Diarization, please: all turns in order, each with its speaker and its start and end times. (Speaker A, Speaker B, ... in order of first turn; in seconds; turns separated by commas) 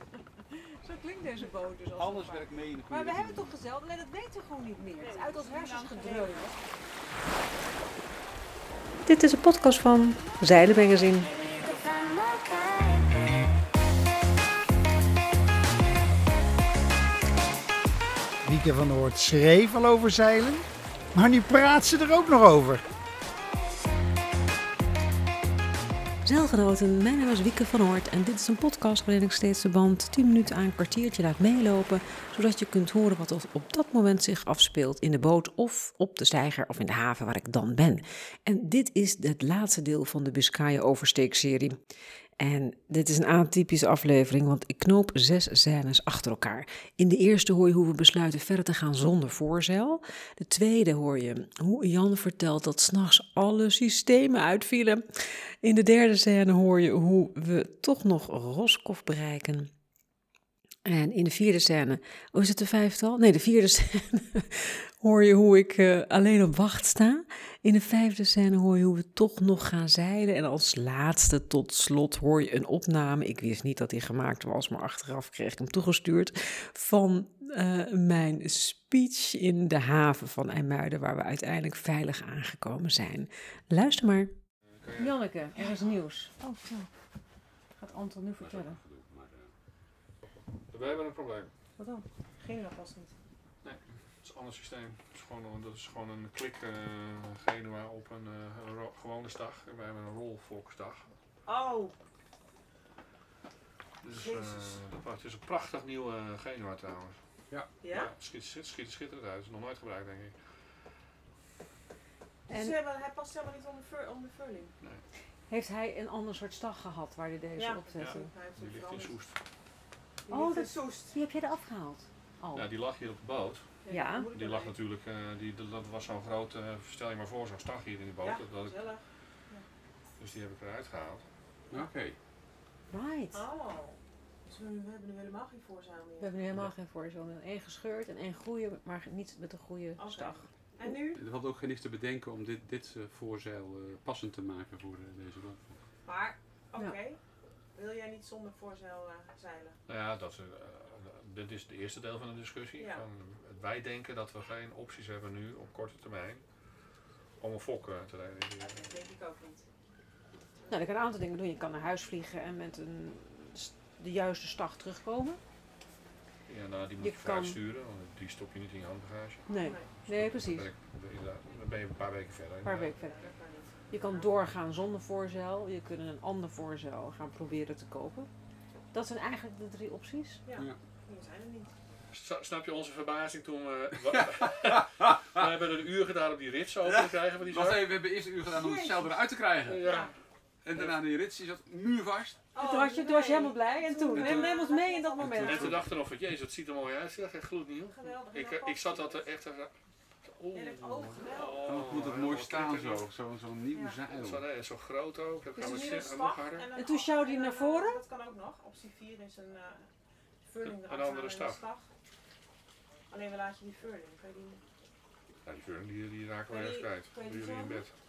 Speaker A: 0.5-6.5, Speaker B: 1.9-3.5, Speaker C: 5.0-6.7, Speaker A: 9.1-11.3, Speaker D: 18.4-22.8, Speaker A: 26.2-41.8, Speaker A: 42.4-59.7, Speaker A: 60.9-84.3, Speaker E: 84.7-85.2, Speaker A: 85.0-86.9, Speaker A: 87.8-88.8, Speaker B: 88.4-89.5, Speaker E: 90.3-91.5, Speaker C: 91.8-93.1, Speaker E: 93.6-101.1, Speaker C: 101.5-101.9, Speaker E: 104.0-107.2, Speaker C: 104.1-104.8, Speaker C: 107.8-108.1, Speaker E: 107.9-110.4, Speaker C: 112.5-114.8, Speaker A: 112.5-112.8, Speaker A: 115.5-118.3, Speaker C: 117.6-119.2, Speaker E: 118.0-119.4, Speaker C: 120.3-121.2, Speaker A: 120.3-122.7, Speaker E: 122.5-129.0, Speaker C: 123.8-124.8, Speaker A: 123.9-124.3, Speaker C: 128.2-129.7, Speaker E: 130.2-131.2, Speaker B: 131.7-132.2, Speaker A: 132.9-133.4, Speaker C: 133.3-136.4, Speaker A: 136.2-140.9, Speaker C: 140.0-141.2, Speaker B: 141.2-145.8, Speaker C: 146.1-149.8, Speaker E: 149.9-156.7, Speaker C: 152.8-153.0, Speaker E: 157.4-158.9, Speaker C: 158.6-159.7, Speaker A: 160.7-165.4, Speaker E: 166.5-169.5, Speaker A: 167.0-167.6, Speaker A: 169.5-170.7, Speaker C: 169.5-169.9, Speaker E: 170.0-172.9, Speaker A: 172.6-173.2, Speaker C: 172.9-174.3, Speaker A: 173.9-178.3, Speaker A: 178.9-180.4, Speaker C: 180.5-181.8, Speaker E: 182.1-188.0, Speaker B: 184.1-185.5, Speaker B: 186.8-189.9, Speaker C: 188.5-189.2, Speaker E: 189.7-190.1, Speaker C: 189.8-190.1, Speaker B: 190.6-192.4, Speaker E: 190.8-191.0, Speaker C: 192.5-195.6, Speaker A: 192.6-195.7, Speaker B: 194.2-194.5, Speaker B: 195.2-195.9, Speaker E: 195.4-199.7, Speaker C: 197.8-199.3, Speaker E: 200.2-203.1, Speaker C: 200.5-202.1, Speaker B: 201.7-204.5, Speaker C: 203.7-204.0, Speaker E: 204.1-206.7, Speaker C: 205.6-209.9, Speaker A: 205.6-205.9, Speaker A: 206.8-208.0, Speaker C: 210.4-211.9, Speaker E: 210.6-211.6, Speaker C: 213.1-214.6, Speaker E: 215.4-217.9, Speaker C: 216.5-217.8, Speaker A: 217.2-217.5